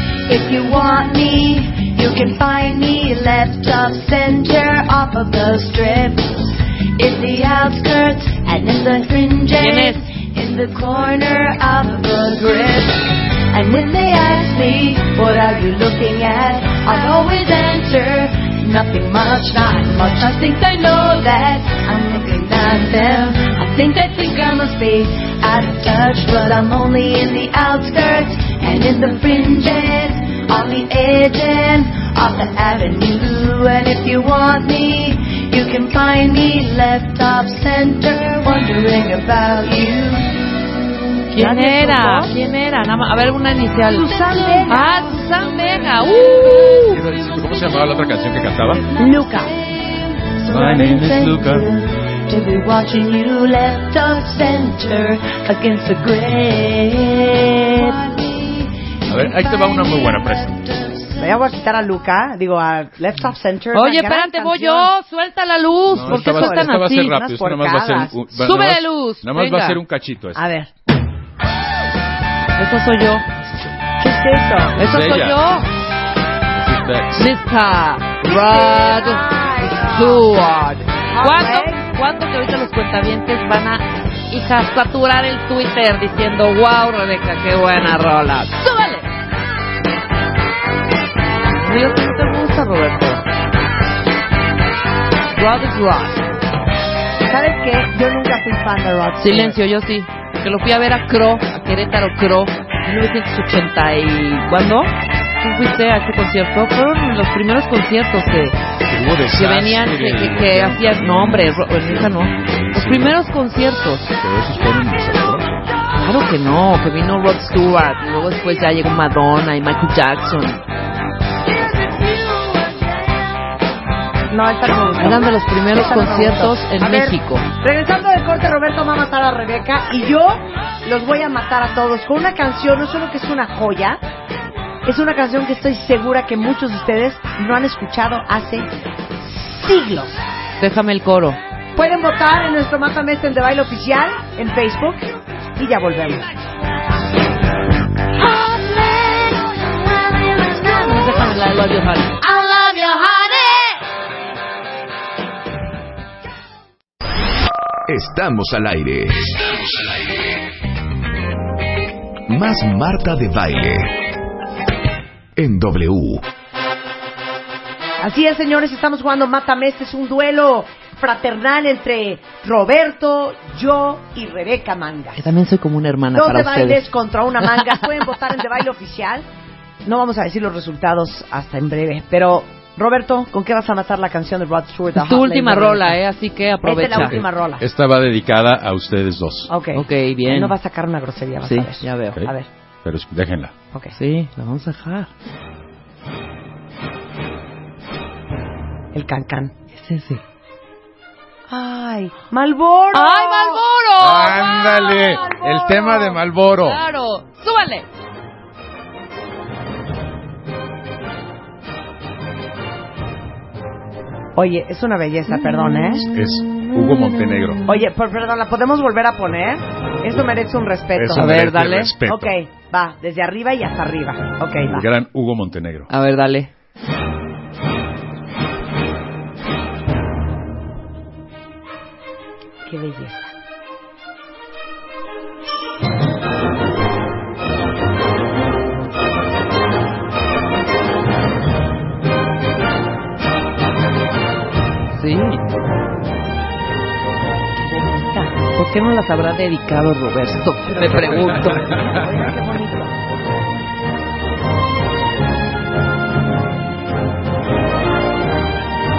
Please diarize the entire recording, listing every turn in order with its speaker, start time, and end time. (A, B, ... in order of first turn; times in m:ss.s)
0:00.3-0:40.4 A
0:09.6-0:10.0 B
0:41.3-0:47.0 B
0:41.4-0:42.3 C
0:43.9-0:45.1 C
0:44.0-0:46.8 A
0:46.8-0:48.8 D
0:48.8-1:01.3 A
0:49.0-0:49.5 C
0:50.5-0:51.7 D
0:59.1-1:00.6 D
1:01.2-1:04.9 C
1:03.7-1:07.1 B
1:05.9-1:10.4 D
1:06.1-1:08.2 C
1:08.3-1:09.8 B
1:10.4-1:10.7 C
1:12.6-1:13.2 B
1:14.0-1:14.8 C
1:14.8-1:15.7 B
1:14.8-1:15.4 D
1:16.5-1:17.4 D
1:17.2-1:29.0 B
1:18.2-1:20.3 C
1:21.1-1:21.9 C
1:31.6-1:33.2 B
1:35.3-1:36.2 B
1:37.3-1:39.6 C
1:39.2-1:48.6 B
1:48.9-1:53.2 D
1:49.3-1:54.1 B
1:54.2-1:55.7 D
1:56.0-2:00.6 B
2:04.3-2:14.0 C
2:05.0-2:07.4 B
2:14.8-2:20.2 C
2:20.6-2:21.4 B
2:21.8-2:25.0 C
2:25.6-2:26.3 C
2:28.2-2:31.3 A
2:30.7-2:32.2 B
2:32.2-2:33.8 A
2:37.9-2:39.4 E
2:42.3-2:43.9 E
2:45.4-2:46.2 E
2:48.0-2:55.3 C
2:55.2-2:56.9 B
2:56.1-2:59.2 C
2:59.8-3:06.0 C
3:04.9-3:07.2 B
3:06.6-3:07.6 C
3:07.0-3:09.5 D
3:09.5-3:12.5 C
3:09.7-3:10.6 B
3:11.4-3:12.2 B
3:12.8-3:13.5 D
3:14.0-3:15.1 B
3:18.9-3:19.5 C
3:19.8-3:20.2 B
3:21.5-3:23.6 C
3:22.9-3:25.4 B
3:24.0-3:26.8 D
3:26.6-3:27.9 B
3:34.4-3:36.1 C
3:36.1-3:37.6 D
3:37.6-3:41.3 C
3:41.0-3:42.3 D
3:41.1-3:41.9 B
3:42.0-3:44.8 C
3:44.6-3:45.9 D
3:45.9-3:46.5 B
3:52.6-3:53.3 C
4:05.0-4:05.4 B
4:07.6-4:08.4 C
4:08.5-4:11.6 B
4:10.6-4:13.0 C
4:10.8-4:12.0 D